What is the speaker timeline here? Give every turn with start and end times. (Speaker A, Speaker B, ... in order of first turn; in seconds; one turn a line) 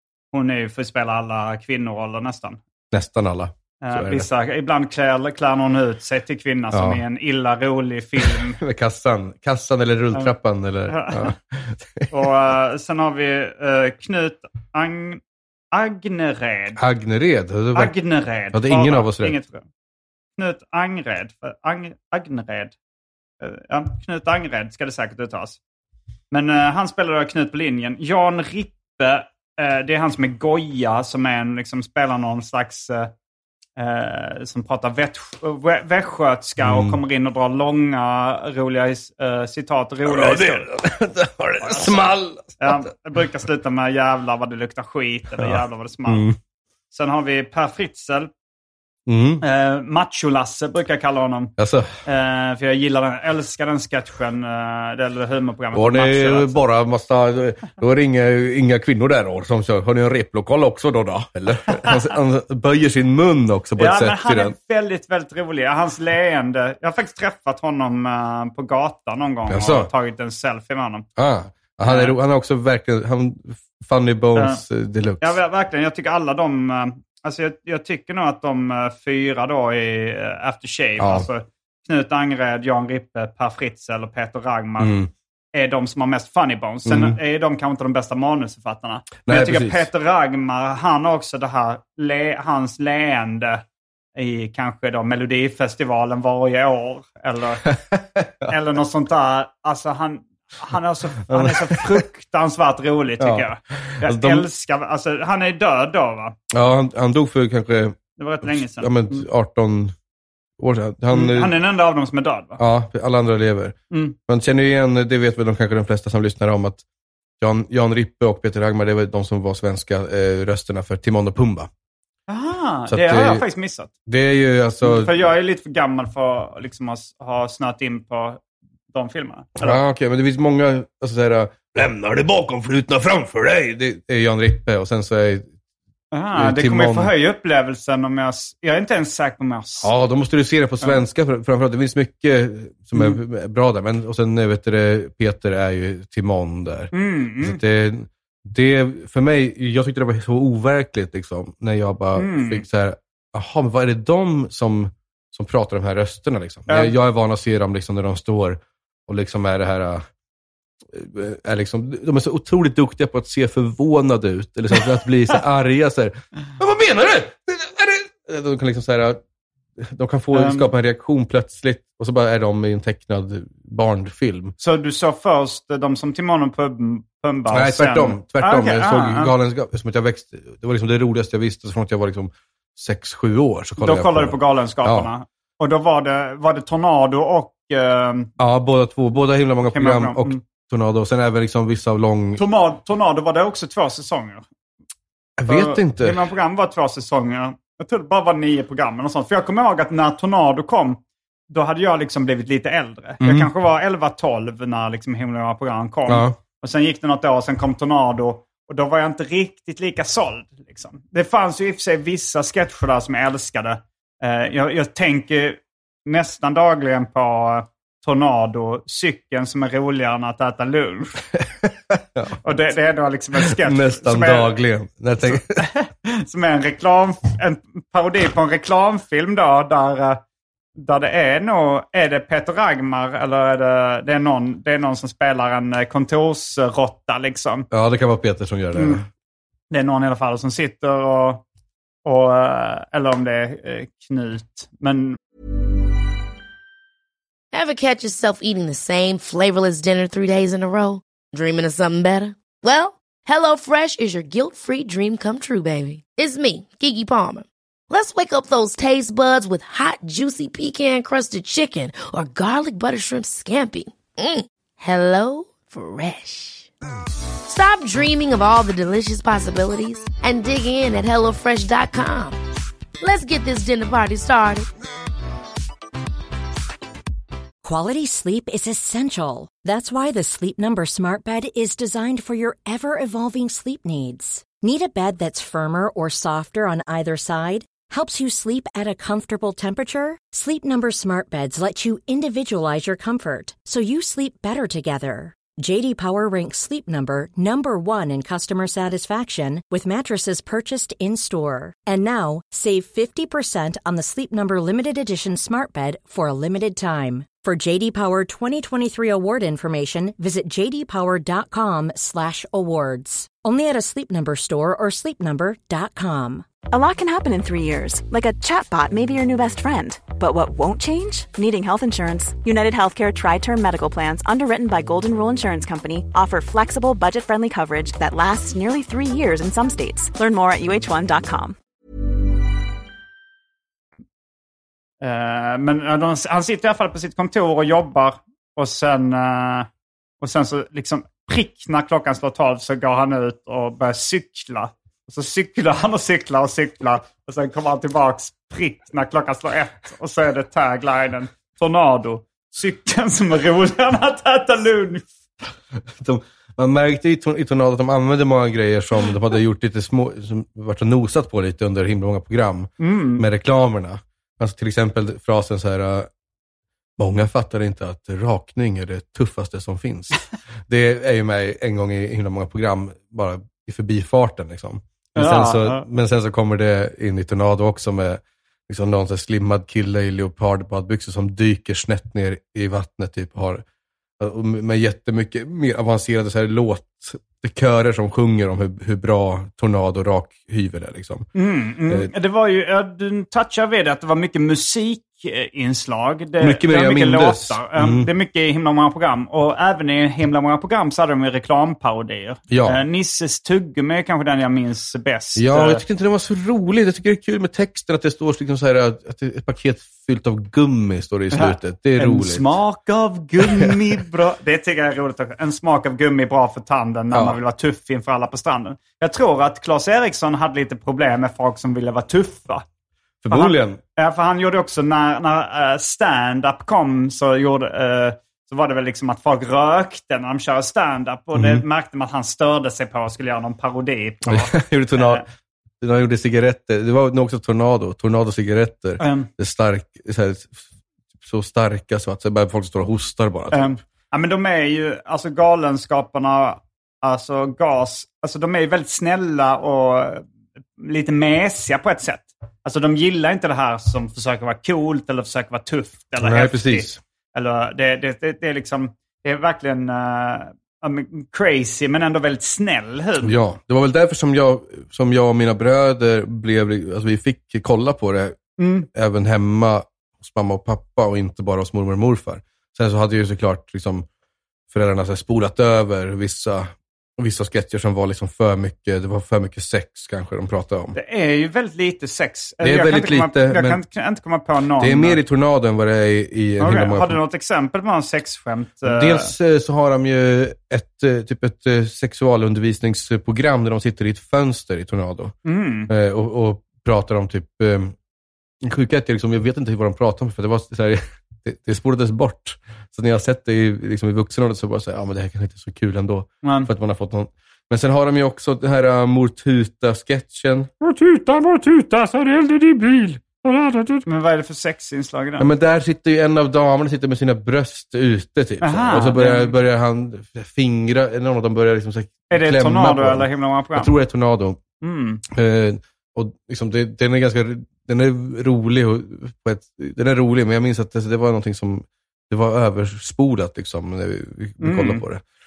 Speaker A: 0.3-2.6
Speaker B: 2.9-4.3
Speaker A: 3.8-8.6
Speaker B: 6.7-7.0
Speaker B: 8.2-12.1
Speaker A: 10.9-11.3
Speaker A: 12.1-15.2
Speaker A: 15.7-16.8
Speaker B: 16.8-17.9
Speaker A: 17.7-19.6
Speaker B: 18.5-19.4
Speaker A: 20.4-22.7
Speaker A: 23.4-25.6
Speaker A: 26.3-33.1
Speaker A: 33.8-40.7
Speaker B: 36.6-37.0
Speaker B: 40.0-42.8
Speaker A: 41.6-42.0
Speaker A: 42.6-46.3
Speaker B: 45.4-46.4
Speaker A: 46.9-48.3
Speaker B: 49.1-49.4
Speaker A: 49.4-56.6
Speaker B: 51.6-51.9
Speaker B: 55.7-64.5
Speaker A: 63.8-71.1
Speaker B: 69.5-69.9
Speaker B: 71.2-75.3
Speaker A: 71.8-72.1
Speaker A: 74.4-74.6
Speaker A: 75.2-85.0
Speaker B: 81.0-81.3
Speaker B: 84.8-85.1
Speaker A: 85.5-93.6
Speaker B: 86.9-87.2
Speaker B: 89.2-89.9
Speaker A: 94.2-97.7
Speaker B: 97.6-98.5
Speaker A: 98.5-106.4
Speaker B: 101.3-102.0
Speaker B: 103.2-104.5
Speaker B: 106.5-109.9
Speaker A: 108.2-109.2
Speaker B: 110.6-111.5
Speaker A: 111.1-112.6
Speaker B: 112.6-116.8
Speaker A: 113.9-114.2
Speaker B: 117.4-121.7
Speaker A: 122.3-123.9
Speaker B: 122.9-123.4
Speaker B: 124.0-125.1
Speaker A: 124.8-128.4
Speaker A: 128.9-129.8
Speaker B: 129.6-135.5
Speaker A: 136.1-139.9
Speaker B: 136.4-137.1
Speaker B: 139.8-160.0
Speaker A: 146.9-147.6
Speaker A: 152.2-152.6
Speaker A: 156.7-156.9
Speaker B: 160.9-169.2
Speaker B: 169.8-174.5
Speaker A: 170.3-170.7
Speaker A: 174.6-179.3
Speaker B: 177.5-185.1
Speaker A: 183.8-188.3
Speaker B: 188.4-192.4
Speaker A: 189.7-190.4
Speaker A: 192.4-194.4
Speaker B: 195.4-196.2
Speaker A: 195.4-221.2
Speaker B: 203.2-203.5
Speaker B: 206.1-206.4
Speaker B: 221.6-222.4
Speaker A: 222.4-224.5
Speaker B: 223.5-225.6
Speaker A: 225.2-230.2
Speaker A: 230.8-237.7
Speaker B: 237.7-239.1
Speaker A: 238.7-239.0
Speaker A: 239.7-241.4
Speaker A: 242.0-245.2
Speaker C: 247.5-266.7
Speaker C: 267.5-272.4
Speaker C: 273.0-274.7
Speaker D: 277.6-316.5
Speaker E: 316.7-331.5
Speaker A: 335.0-339.7
Speaker A: 340.2-355.1
Speaker B: 356.0-366.1
Speaker A: 362.8-363.2
Speaker B: 367.0-383.6
Speaker A: 375.1-375.8
Speaker B: 384.2-391.3
Speaker A: 391.4-405.8
Speaker B: 396.4-398.1
Speaker B: 402.5-402.8
Speaker B: 405.4-412.4
Speaker A: 411.3-422.6
Speaker B: 413.4-413.9
Speaker B: 417.1-417.4
Speaker B: 423.2-423.8
Speaker A: 423.3-435.2
Speaker B: 431.3-431.6
Speaker B: 434.3-435.2
Speaker B: 435.8-440.6
Speaker A: 439.0-439.3
Speaker B: 441.2-443.7
Speaker A: 443.5-450.3
Speaker A: 450.8-463.3
Speaker B: 456.2-457.0
Speaker B: 463.2-468.4
Speaker A: 468.6-468.9
Speaker B: 468.9-474.1
Speaker B: 474.7-480.9
Speaker A: 480.9-485.2
Speaker B: 482.6-483.8
Speaker B: 484.8-487.2
Speaker A: 486.6-489.3
Speaker B: 488.8-495.3
Speaker A: 495.4-495.9
Speaker B: 495.9-497.9
Speaker B: 498.6-514.0
Speaker A: 506.4-506.7
Speaker A: 514.0-515.5
Speaker B: 515.4-524.6
Speaker A: 518.6-519.5
Speaker A: 522.3-523.9
Speaker A: 524.8-525.2
Speaker B: 525.3-535.2
Speaker A: 534.6-535.0